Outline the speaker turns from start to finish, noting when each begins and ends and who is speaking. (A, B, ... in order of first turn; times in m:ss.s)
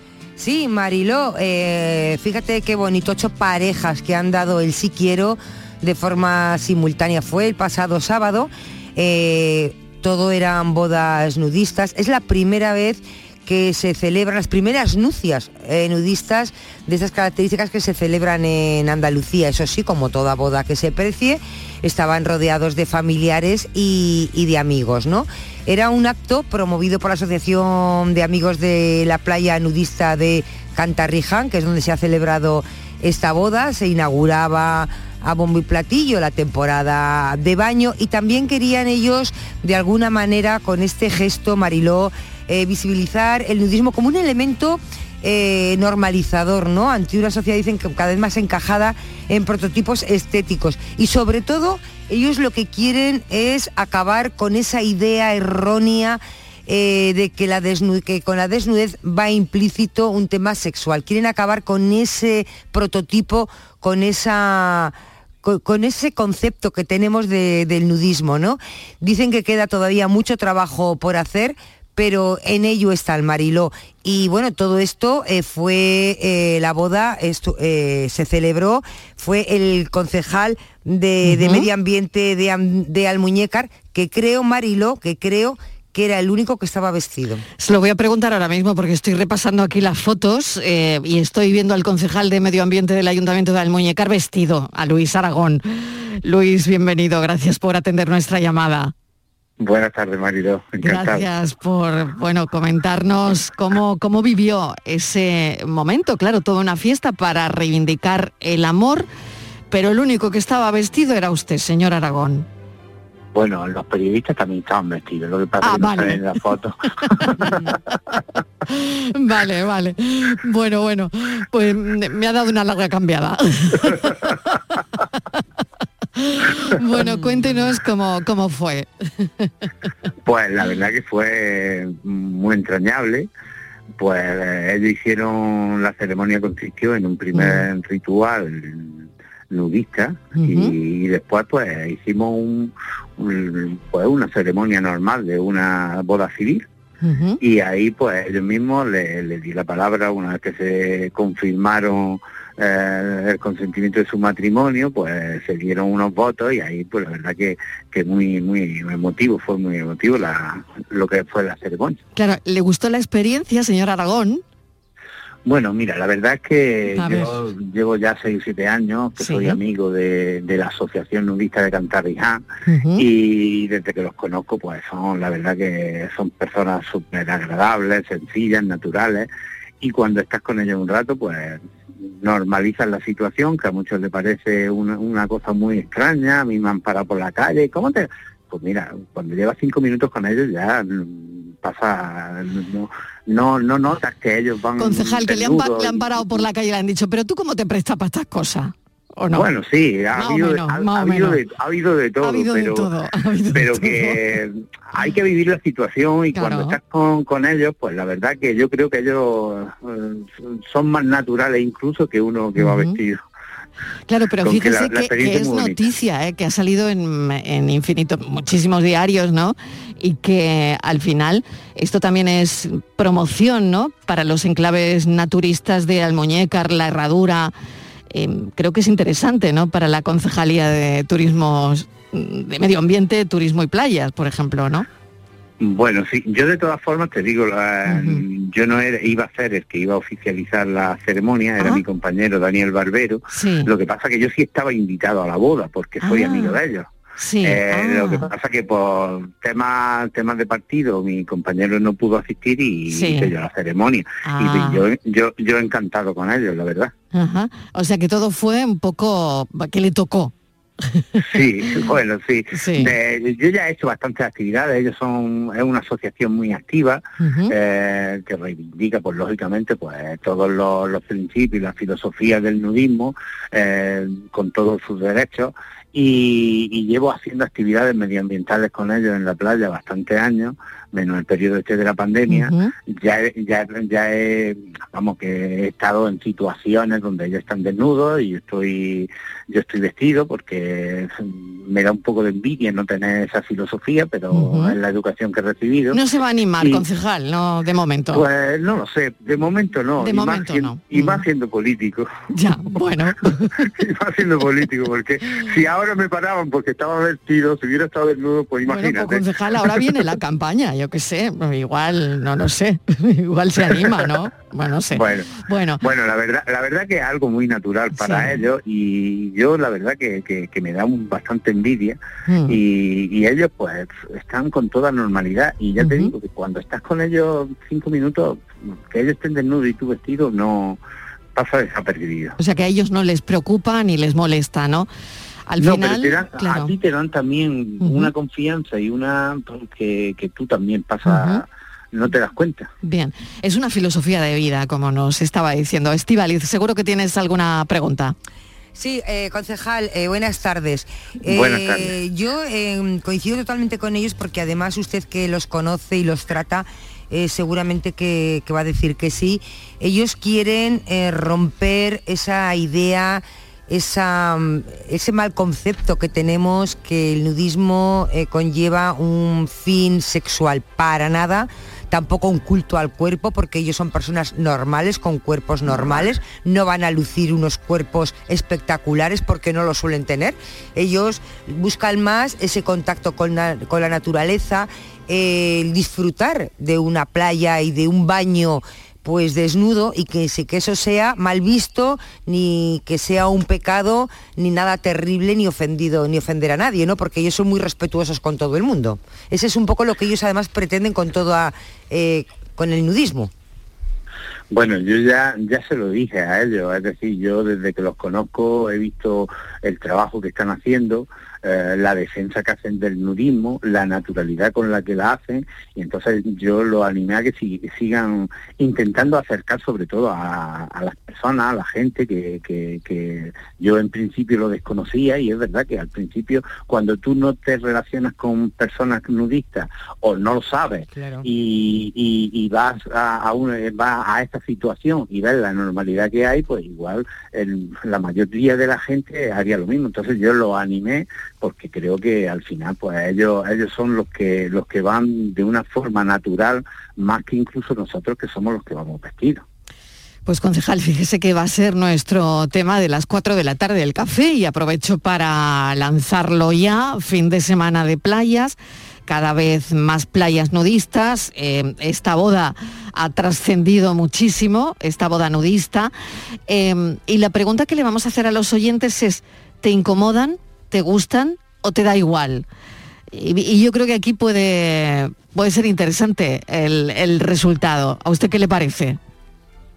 0:00.4-1:27.4 A
1:21.2-1:21.7 B
1:27.6-1:38.9 B
1:39.6-1:41.3 C
1:40.8-1:49.1 B
1:49.7-1:52.5 B
1:53.3-1:57.8 C
1:55.6-1:56.3 B
1:57.1-1:57.7 B
1:58.7-2:04.8 B
2:06.2-2:08.9 B
2:10.3-2:13.3 C
2:14.0-2:26.6 C
2:17.3-2:17.7 B
2:20.3-2:20.8 B
2:27.0-2:27.4 B
2:27.4-2:42.0 C
2:42.2-2:44.4 B
2:45.5-2:52.4 C
2:46.9-2:47.4 B
2:49.2-2:49.6 B
2:52.7-2:53.1 B
2:52.9-2:59.3 C
2:59.8-3:16.5 C
3:14.8-3:19.5 B
3:19.3-3:22.9 C
3:20.1-3:21.4 B
3:22.2-3:24.2 B
3:23.5-3:33.2 C
3:26.3-3:26.8 B
3:32.6-3:33.0 B
3:34.1-3:47.5 B
3:34.4-3:35.9 C
3:48.1-3:54.9 B
3:55.6-4:06.9 C
3:57.9-3:58.2 B
4:01.6-4:01.8 B
4:03.3-4:03.7 B
4:06.0-4:06.6 B
4:07.2-4:08.3 B
4:07.4-4:16.9 C
4:12.9-4:13.3 B
4:14.2-4:14.9 B
4:17.1-4:20.3 B
4:20.9-4:21.8 B
4:21.2-4:56.0 C
4:22.5-4:23.0 B
4:27.2-4:27.5 B
4:42.3-4:42.7 B
4:54.3-4:54.8 B
4:55.9-4:58.2 B
4:56.6-4:56.8 C
4:58.1-5:02.1 C
5:00.0-5:01.2 B
5:02.3-5:03.7 B
5:03.6-5:09.9 C
5:08.7-5:15.8 B
5:13.7-5:14.1 C
5:14.9-5:30.8 C
5:17.9-5:18.4 B
5:22.3-5:22.6 B
5:25.8-5:26.1 B
5:31.4-5:32.4 C
5:32.4-5:34.9 B
5:35.5-5:36.7 B
5:35.6-5:42.7 C
5:37.8-5:38.1 B
5:41.0-5:41.4 B
5:42.8-5:48.1 B
5:48.8-6:43.3 A
5:51.3-5:52.0 C
6:44.5-7:29.4 C
7:30.3-7:38.6 B
7:39.1-7:45.9 B
7:46.5-7:52.5 B
7:53.1-7:59.0 B